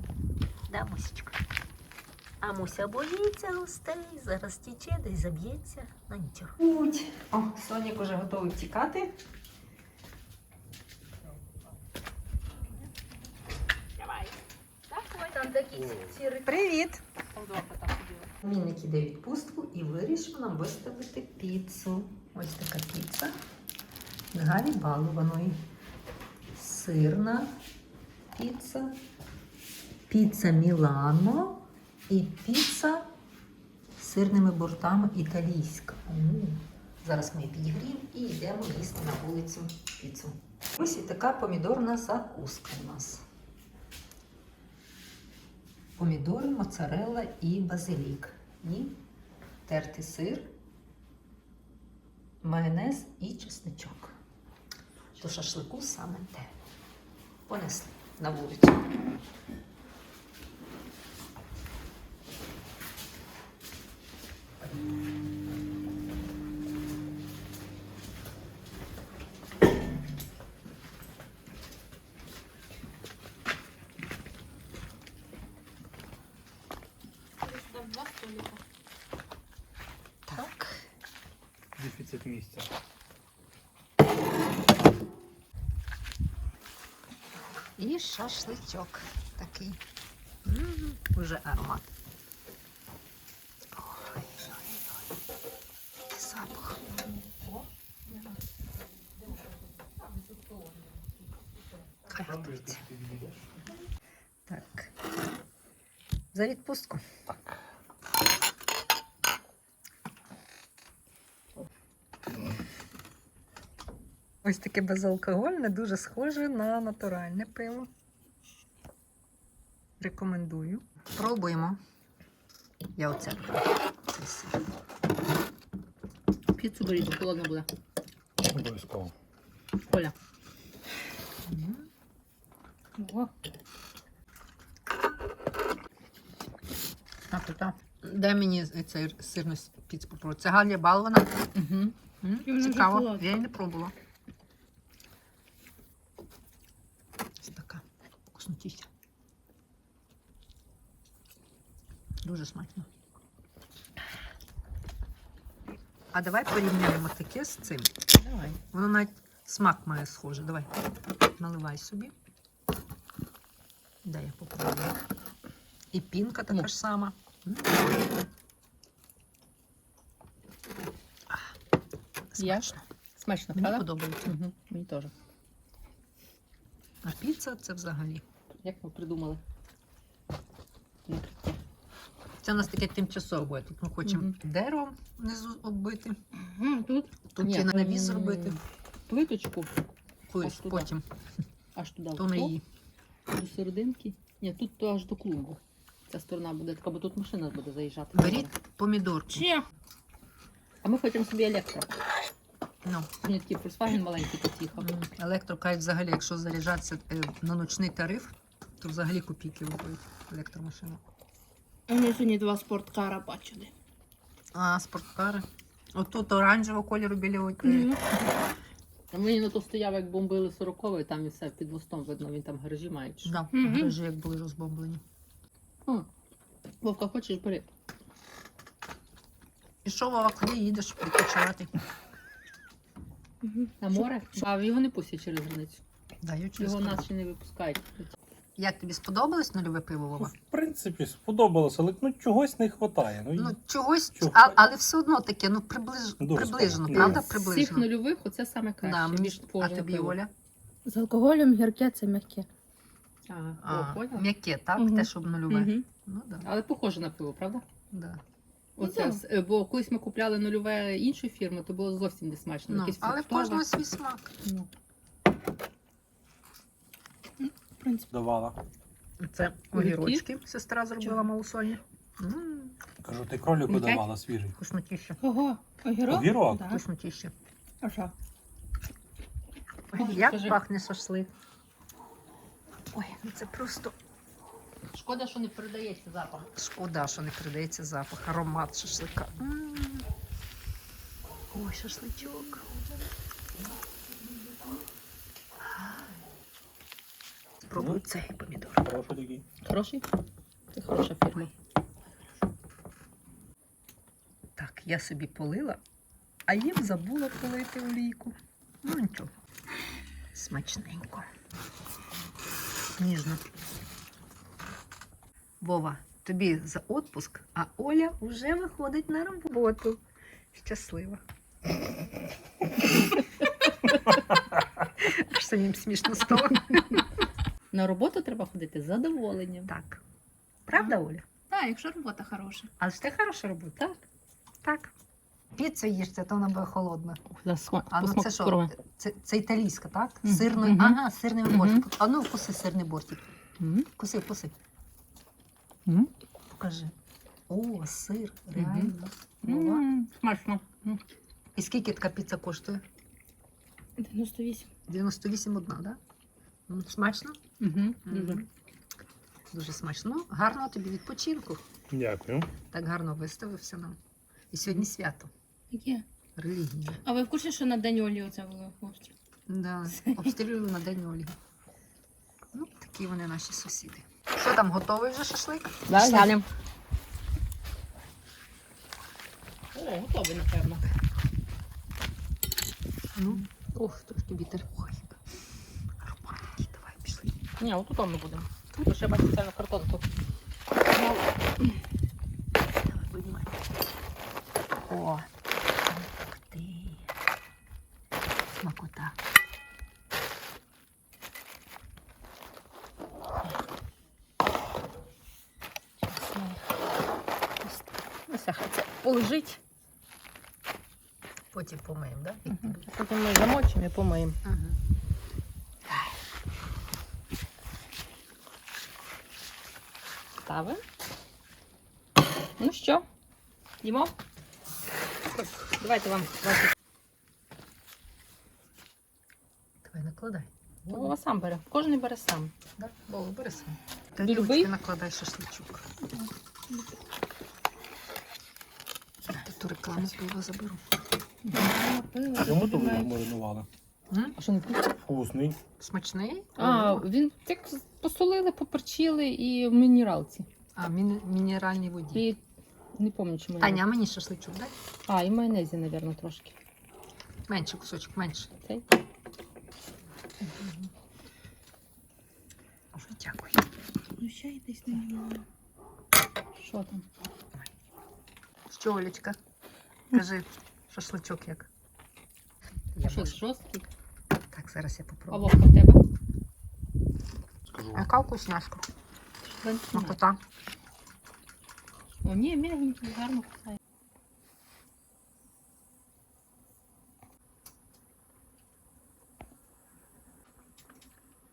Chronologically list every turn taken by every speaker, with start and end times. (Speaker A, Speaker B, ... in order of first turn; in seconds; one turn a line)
Speaker A: 0.7-1.4
Speaker A: 2.4-6.5
Speaker B: 6.6-9.1
Speaker C: 14.0-14.3
Speaker C: 14.9-16.5
Speaker D: 15.1-15.9
Speaker B: 16.4-17.0
Speaker D: 17.3-18.3
Speaker B: 18.4-23.4
Speaker B: 24.3-25.6
Speaker B: 26.5-27.6
Speaker B: 28.3-29.0
Speaker B: 30.1-33.1
Speaker B: 34.0-43.2
Speaker B: 46.0-49.0
Speaker B: 49.7-50.5
Speaker B: 52.4-54.1
Speaker B: 55.2-56.5
Speaker B: 57.5-58.9
Speaker C: 77.4-78.6
Speaker B: 80.3-80.8
Speaker E: 81.8-82.7
Speaker B: 87.8-89.8
Speaker B: 90.4-91.9
Speaker B: 93.7-95.0
Speaker B: 96.1-96.9
Speaker B: 102.1-102.8
Speaker E: 102.1-103.5
Speaker B: 104.5-104.9
Speaker B: 106.3-107.0
Speaker B: 114.4-117.9
Speaker B: 120.0-121.8
Speaker B: 122.9-124.6
Speaker D: 126.5-127.7
Speaker E: 128.4-129.1
Speaker D: 129.9-130.1
Speaker B: 131.4-131.9
Speaker B: 137.3-141.4
Speaker D: 141.5-141.9
Speaker B: 142.2-143.9
Speaker C: 142.4-143.2
Speaker B: 147.4-148.9
Speaker B: 152.2-152.9
Speaker B: 156.1-157.9
Speaker D: 158.2-158.6
Speaker B: 158.7-160.7
Speaker B: 161.4-162.1
Speaker B: 164.0-165.0
Speaker B: 165.9-167.8
Speaker B: 172.3-172.8
Speaker D: 172.4-175.1
Speaker B: 173.5-174.3
Speaker B: 177.0-178.2
Speaker D: 178.6-179.4
Speaker D: 181.1-181.6
Speaker B: 182.4-186.2
Speaker D: 184.0-184.3
Speaker D: 186.5-189.7
Speaker B: 187.3-188.6
Speaker B: 190.3-191.0
Speaker D: 190.4-190.9
Speaker D: 191.7-192.5
Speaker B: 192.2-192.6
Speaker D: 193.3-198.5
Speaker B: 198.1-199.5
Speaker D: 199.3-199.6
Speaker D: 200.8-201.9
Speaker B: 202.8-203.1
Speaker D: 203.2-205.0
Speaker B: 204.8-211.0
Speaker C: 211.9-213.7
Speaker B: 214.5-218.0
Speaker D: 217.7-218.0
Speaker D: 219.1-223.3
Speaker B: 223.2-225.0
Speaker C: 223.6-223.9
Speaker D: 226.8-227.7
Speaker B: 229.8-231.8
Speaker C: 233.4-233.7
Speaker D: 233.8-235.8
Speaker B: 236.2-237.1
Speaker D: 236.6-238.1
Speaker B: 238.6-240.3
Speaker E: 240.3-243.6
Speaker B: 243.3-247.9
Speaker E: 244.2-244.6
Speaker E: 246.2-247.2
Speaker D: 246.9-250.2
Speaker B: 248.8-250.3
Speaker C: 250.8-252.4
Speaker D: 253.3-254.3
Speaker B: 253.6-256.5
Speaker C: 254.8-255.0
Speaker D: 255.5-255.8
Speaker D: 256.4-257.6
Speaker B: 257.9-258.2
Speaker D: 258.8-263.7
Speaker C: 258.8-259.2
Speaker B: 262.7-264.3
Speaker D: 264.4-264.7
Speaker C: 267.8-268.1
Speaker E: 268.1-268.6
Speaker B: 269.2-272.8
Speaker D: 269.7-270.2
Speaker E: 273.0-274.5
Speaker D: 273.7-274.0
Speaker B: 274.6-275.2
Speaker C: 275.2-276.8
Speaker E: 276.1-276.7
Speaker B: 276.6-277.3
Speaker C: 277.8-278.1
Speaker B: 279.9-281.3
Speaker D: 279.9-280.6
Speaker B: 282.9-283.9
Speaker D: 284.9-286.5
Speaker B: 286.5-290.1
Speaker B: 291.5-292.6
Speaker B: 297.6-298.9
Speaker E: 297.7-298.1
Speaker E: 298.8-299.4
Speaker D: 299.6-300.0
Speaker D: 300.7-301.5
Speaker B: 304.6-305.8
Speaker B: 306.5-309.3
Speaker B: 310.3-311.3
Speaker B: 313.0-313.6
Speaker B: 315.6-320.0
Speaker B: 320.5-321.2
Speaker B: 325.0-327.0
Speaker D: 327.7-329.7
Speaker B: 329.7-330.0
Speaker B: 330.7-331.2
Speaker C: 331.5-332.7
Speaker B: 332.8-333.9
Speaker B: 334.6-334.9
Speaker B: 335.5-337.2
Speaker D: 337.3-338.7
Speaker B: 337.9-343.2
Speaker D: 340.2-341.9
Speaker D: 343.6-343.9
Speaker B: 344.0-344.5
Speaker D: 345.9-346.1
Speaker B: 346.5-346.9
Speaker B: 347.5-349.8
Speaker D: 348.5-351.0
Speaker B: 351.6-352.8
Speaker C: 354.0-354.6
Speaker B: 354.9-356.0
Speaker B: 356.7-357.4
Speaker D: 357.6-358.4
Speaker B: 358.0-358.5
Speaker B: 359.5-361.6
Speaker E: 361.9-362.5
Speaker B: 362.7-364.0
Speaker B: 364.5-365.3
Speaker C: 365.7-366.0
Speaker B: 366.4-367.0
Speaker C: 367.0-369.1
Speaker B: 369.5-371.4
Speaker B: 372.5-376.4
Speaker D: 375.9-376.5
Speaker D: 379.7-380.9
Speaker B: 383.1-385.2
Speaker B: 386.0-387.4
Speaker D: 387.6-390.0
Speaker B: 392.8-393.6
Speaker B: 394.9-395.3
Speaker B: 395.9-397.0
Speaker B: 398.6-399.1
Speaker D: 406.1-406.6
Speaker D: 408.3-409.6
Speaker B: 411.5-412.9
Speaker D: 412.5-414.4
Speaker B: 414.4-414.8
Speaker D: 420.4-420.8
Speaker D: 422.6-423.1
Speaker D: 423.8-424.1
Speaker D: 425.4-426.7
Speaker B: 429.8-431.2
Speaker D: 430.9-432.5
Speaker B: 432.8-435.8
Speaker D: 434.2-434.7
Speaker C: 436.1-436.8
Speaker B: 439.3-440.8
Speaker D: 441.5-441.7
Speaker C: 441.5-443.1
Speaker E: 442.3-443.7
Speaker B: 444.1-444.4
Speaker D: 444.4-444.9
Speaker E: 445.0-445.6
Speaker B: 445.8-447.1
Speaker D: 446.6-450.5
Speaker B: 450.8-452.3
Speaker D: 452.1-452.4
Speaker D: 452.9-453.9
Speaker B: 453.6-454.7
Speaker D: 455.1-456.6
Speaker B: 457.5-458.5
Speaker B: 460.4-460.9
Speaker B: 462.9-463.6
Speaker C: 464.2-465.4
Speaker D: 466.6-467.0
Speaker B: 468.7-469.4
Speaker B: 470.1-471.7
Speaker B: 472.9-473.4
Speaker D: 473.0-473.9
Speaker B: 474.5-475.6
Speaker D: 475.3-476.0
Speaker E: 477.7-478.0
Speaker B: 477.9-478.8
Speaker D: 479.4-480.2
Speaker B: 479.9-480.4
Speaker D: 482.2-483.8